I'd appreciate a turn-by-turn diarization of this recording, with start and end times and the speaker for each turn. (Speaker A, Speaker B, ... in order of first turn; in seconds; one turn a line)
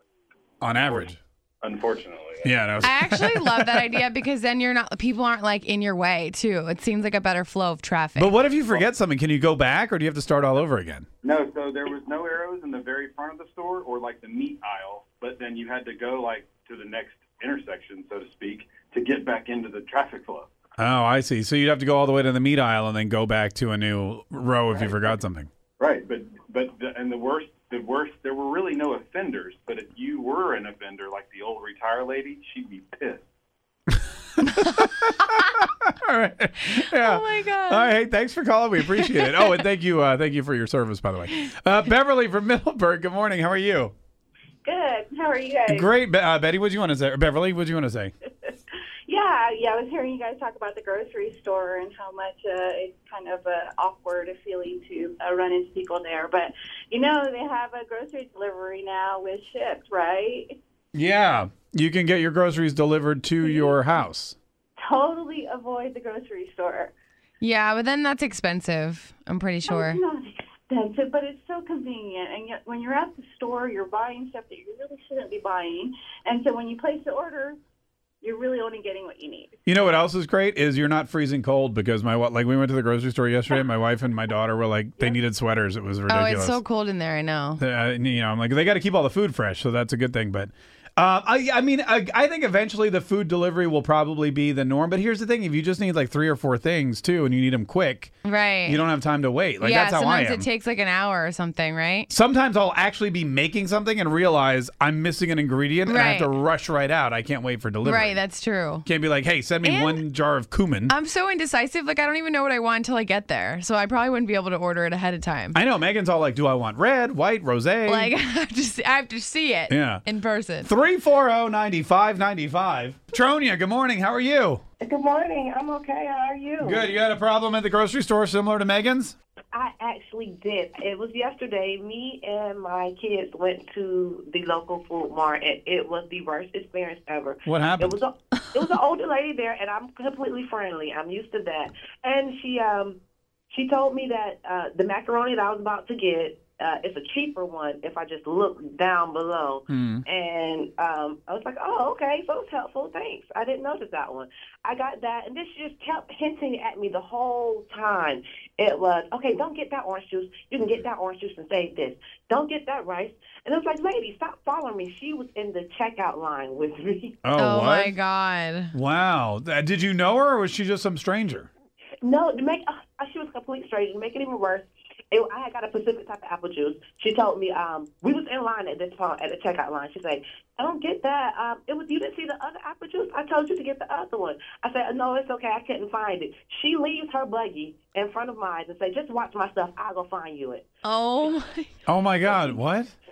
Speaker A: 0.6-1.2
Speaker B: 0.8-2.9
Speaker A: 2.4-4.1
Speaker C: 2.8-8.4
Speaker A: 8.2-11.1
Speaker B: 11.2-20.5
Speaker A: 20.8-25.5
Speaker B: 25.8-33.2
Speaker A: 34.4-43.9
Speaker C: 36.7-38.0
Speaker C: 38.9-39.6
Speaker D: 44.6-45.9
Speaker A: 45.7-48.1
Speaker D: 49.1-60.6
Speaker A: 60.9-64.4
Speaker D: 63.4-63.8
Speaker D: 64.8-66.9
Speaker C: 67.4-70.0
Speaker D: 69.7-77.6
Speaker D: 78.2-79.5
Speaker A: 79.7-86.6
Speaker C: 86.1-87.6
Speaker A: 87.6-98.1
Speaker C: 98.2-98.9
Speaker A: 98.7-100.5
Speaker C: 99.6-102.1
Speaker A: 102.1-108.2
Speaker C: 105.8-106.3
Speaker C: 107.8-108.9
Speaker A: 108.8-110.9
Speaker C: 109.6-110.0
Speaker C: 110.9-115.6
Speaker A: 115.5-118.2
Speaker C: 117.9-120.7
Speaker A: 119.7-120.0
Speaker A: 120.6-124.6
Speaker E: 124.8-126.9
Speaker A: 126.6-129.2
Speaker E: 129.5-143.0
Speaker A: 137.5-138.0
Speaker C: 138.4-138.7
Speaker E: 143.5-167.2
Speaker A: 149.7-150.1
Speaker A: 167.2-168.0
Speaker C: 167.4-168.7
Speaker A: 168.7-171.5
Speaker E: 172.0-190.7
Speaker C: 190.8-191.7
Speaker A: 191.8-192.9
Speaker E: 192.3-192.6